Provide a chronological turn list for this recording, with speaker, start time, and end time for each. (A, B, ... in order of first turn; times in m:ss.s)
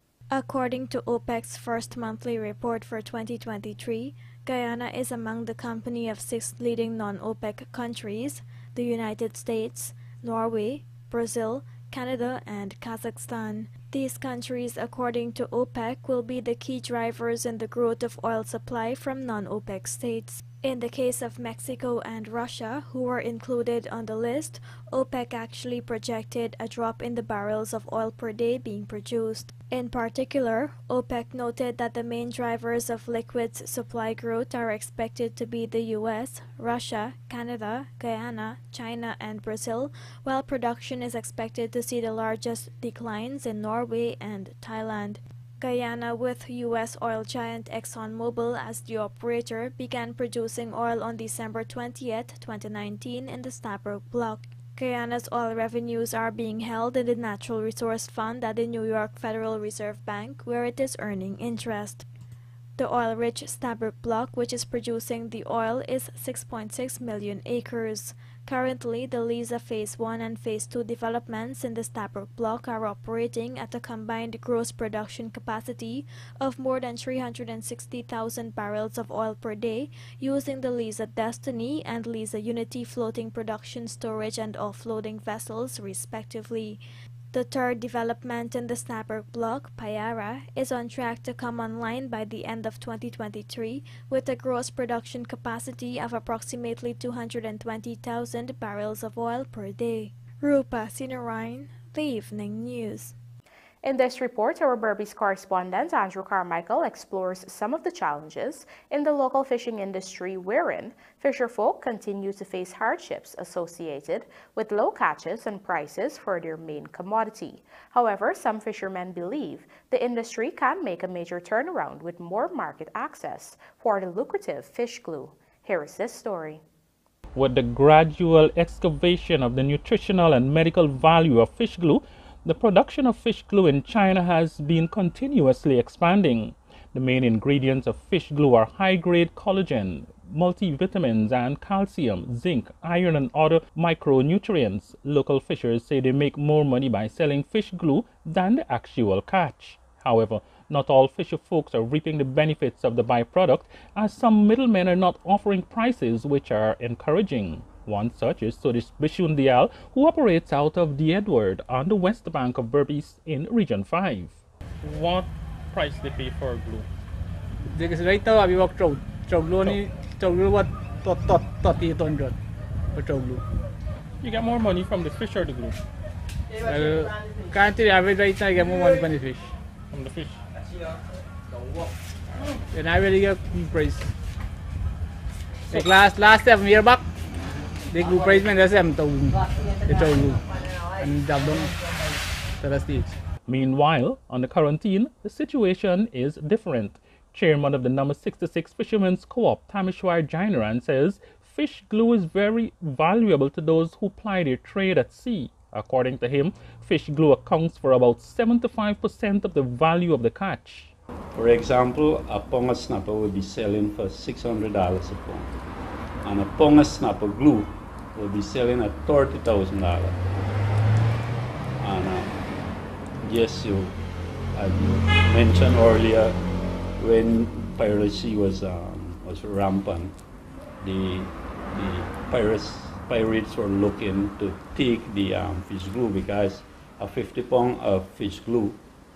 0:00.3-1:02.0 A
1:02.8-1:26.8 A
1:27.3-1:43.1 A
1:43.8-2:06.6 B
2:07.3-2:46.9 C
2:47.7-2:52.4 D
2:52.9-2:53.4 D
2:54.2-2:55.8 C
2:56.6-2:59.5 D
2:59.9-3:00.4 C
3:02.7-3:04.1 D
3:05.7-3:07.0 D
3:07.9-3:10.4 D
3:11.0-3:11.7 D
3:12.6-3:13.2 D
3:13.5-3:30.9 C
3:31.3-3:35.5 E
3:36.2-3:40.4 E
3:41.8-3:42.4 E
3:43.2-3:44.0 E
3:44.5-3:46.4 E
3:47.0-3:50.2 E
3:50.8-3:58.8 E